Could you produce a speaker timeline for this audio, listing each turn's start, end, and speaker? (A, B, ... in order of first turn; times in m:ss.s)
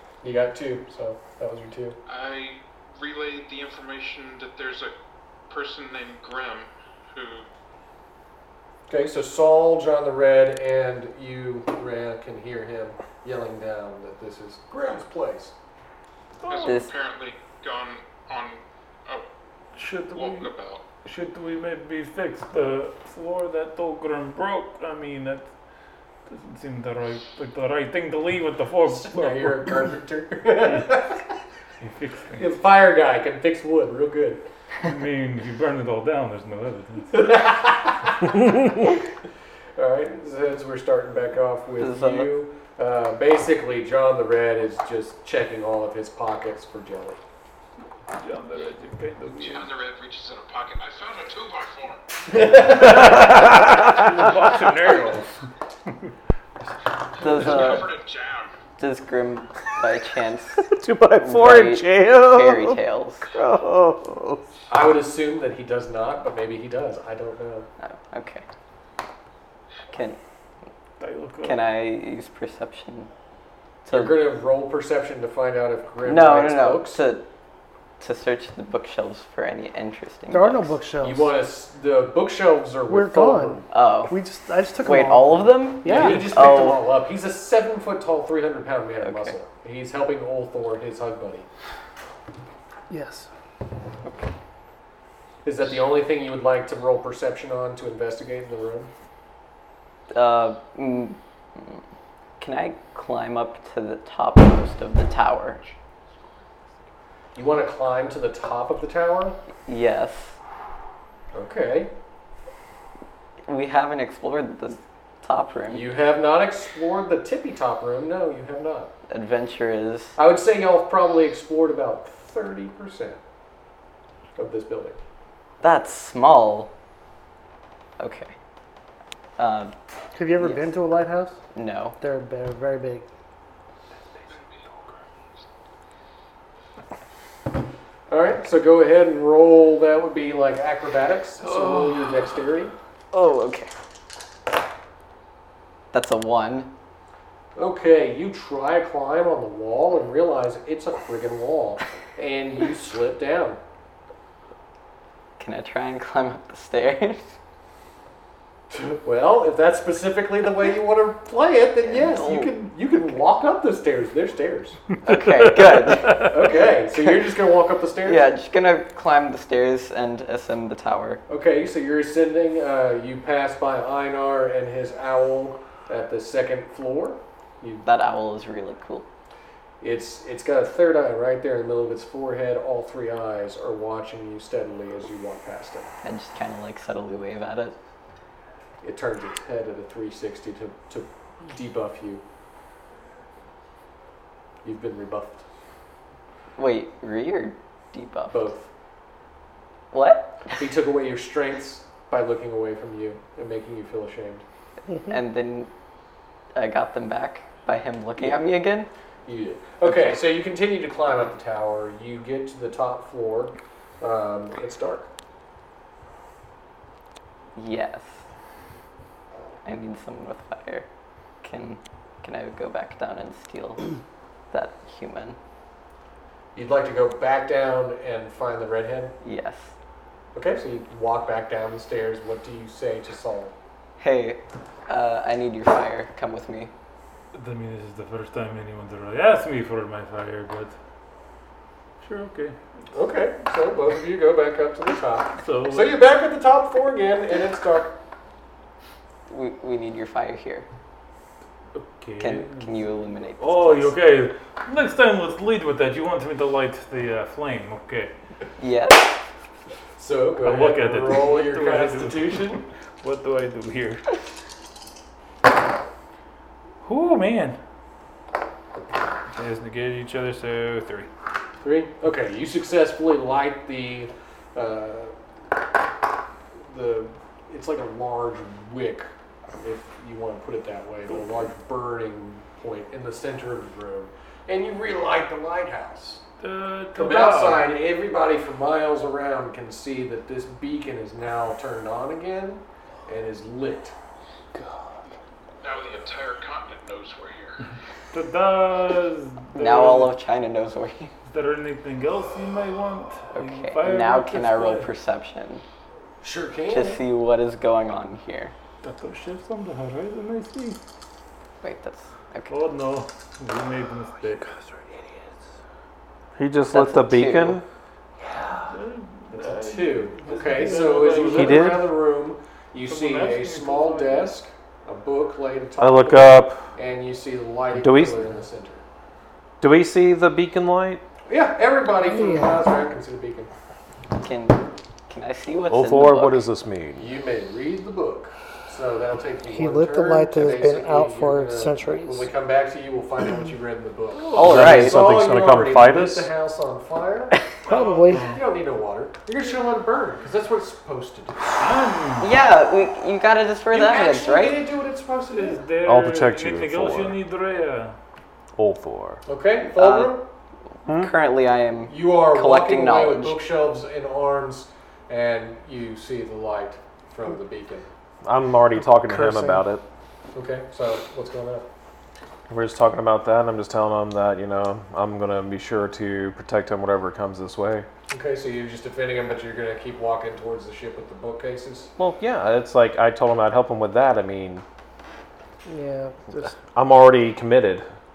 0:00.2-0:02.0 A
0:02.0-0:04.9 B
0:05.5-0:07.5 B
0:08.9-0:15.5 A
0:16.4-0:16.8 C
0:16.4-0:19.3 B
0:16.6-0:16.9 D
0:19.8-0:20.5 C
0:20.1-0:20.8 B
0:21.0-0:25.5 C
0:26.3-0:29.8 C
0:28.8-0:31.2 A
0:31.8-0:32.5 C
0:32.4-0:34.4 A
0:34.8-0:37.3 C
0:37.1-0:38.9 A
0:39.8-0:47.2 A
0:41.8-0:42.3 D
0:48.1-0:49.7 C
0:49.3-0:52.0 B
0:52.3-0:53.2 A
0:52.6-0:55.3 C
0:52.8-0:54.0 E
0:57.2-0:57.9 D
0:57.2-0:58.5 B
0:58.8-1:03.3 D
1:00.6-1:02.8 E
1:03.3-1:04.4 E
1:04.7-1:07.7 A
1:07.8-1:08.4 D
1:09.9-1:10.2 D
1:11.0-1:11.6 C
1:11.4-1:13.1 D
1:13.8-1:14.2 D
1:13.9-1:17.0 A
1:16.0-1:17.3 D
1:18.0-1:20.8 D
1:20.3-1:21.3 F
1:21.0-1:23.6 A
1:22.9-1:26.3 F
1:23.7-1:24.2 D
1:24.8-1:26.8 D
1:25.8-1:31.4 A
1:29.0-1:29.3 D
1:32.9-1:33.3 F
1:34.0-1:34.3 D
1:35.4-1:38.9 A
1:40.1-1:41.8 D
1:42.4-1:45.6 D
1:47.3-1:49.4 A
1:49.6-1:50.4 D
1:51.3-1:51.9 A
1:53.4-1:55.9 D
1:55.7-1:58.9 A
1:59.1-2:00.2 D
2:00.2-2:03.2 A
2:04.4-2:05.0 A
2:05.6-2:06.7 D
2:08.0-2:08.3 D
2:09.4-2:09.7 D
2:10.1-2:11.4 F
2:10.4-2:10.7 D
2:11.5-2:12.0 D
2:12.0-2:13.1 F
2:14.3-2:15.0 B
2:18.1-2:22.7 A
2:21.4-2:22.2 C
2:23.1-2:23.7 D
2:25.9-2:26.7 D
2:27.6-2:33.6 A
2:35.4-2:37.4 D
2:38.7-2:44.8 A
2:41.8-2:42.5 D
2:45.0-2:46.4 D
2:45.1-2:46.3 C
2:46.1-2:48.3 A
2:48.0-2:51.2 D
2:51.3-2:57.8 A
2:57.8-2:59.1 D
2:59.8-3:05.9 A
3:06.0-3:07.8 D
3:08.8-3:12.2 A
3:14.6-3:15.4 A
3:16.6-3:18.5 D
3:18.3-3:18.7 A
3:19.9-3:20.6 D
3:20.6-3:24.4 A
3:25.0-3:25.7 D
3:26.5-3:28.9 D
3:29.2-3:35.1 A
3:29.8-3:30.2 D
3:37.6-3:38.2 D
3:39.6-3:40.9 D
3:41.4-3:43.9 D
3:44.5-3:45.4 D
3:46.5-3:49.2 A
3:49.2-3:49.7 D
3:50.3-3:53.5 A
3:54.0-3:56.7 D
3:57.3-4:00.7 C
4:02.0-4:02.6 C
4:02.9-4:08.0 A
4:05.4-4:06.0 C
4:09.3-4:10.6 D
4:11.7-4:12.9 C
4:12.2-4:14.0 D
4:13.4-4:18.1 C
4:18.6-4:19.2 D
4:20.0-4:22.6 A
4:20.4-4:24.1 C
4:26.8-4:27.6 C
4:29.3-4:31.1 C
4:31.6-4:35.1 A
4:36.6-4:39.1 A
4:39.6-4:46.2 A
4:46.4-4:47.7 C
4:46.9-4:53.9 A
4:55.6-4:57.6 B
4:58.1-5:00.1 C
4:59.5-5:01.1 D
5:01.2-5:04.9 C
5:03.3-5:05.6 D
5:06.2-5:07.0 A
5:06.7-5:08.5 D
5:08.8-5:10.8 C
5:11.6-5:12.5 D
5:12.5-5:14.5 C
5:16.4-5:17.6 E
5:16.7-5:17.6 D
5:18.7-5:21.8 C
5:19.3-5:28.8 A
5:21.2-5:21.9 E
5:22.8-5:24.3 C
5:25.8-5:26.7 E
5:27.7-5:28.2 E
5:29.6-5:31.0 E
5:31.3-5:33.5 A
5:32.1-5:32.5 F
5:34.1-5:36.4 D
5:35.7-5:37.0 E
5:37.0-5:47.5 A
5:39.5-5:42.3 F
5:44.2-5:44.6 C
5:44.3-5:45.0 D
5:44.4-5:46.3 E
5:47.6-5:48.4 F
5:47.6-5:48.4 C
5:48.2-5:51.6 A
5:51.6-5:52.3 C
5:52.2-5:54.6 D
5:53.7-5:55.6 A
5:55.3-5:58.0 C
5:55.8-5:57.2 E
5:58.6-5:59.2 E
5:59.2-6:00.3 A
5:59.7-6:00.2 D
6:00.8-6:01.1 E
6:00.9-6:03.4 D
6:01.9-6:07.9 A
6:08.2-6:09.8 E
6:08.8-6:09.6 F
6:10.3-6:11.6 A
6:12.5-6:17.9 E
6:18.1-6:21.9 A
6:22.0-6:24.6 E
6:25.7-6:26.6 F
6:26.4-6:27.8 E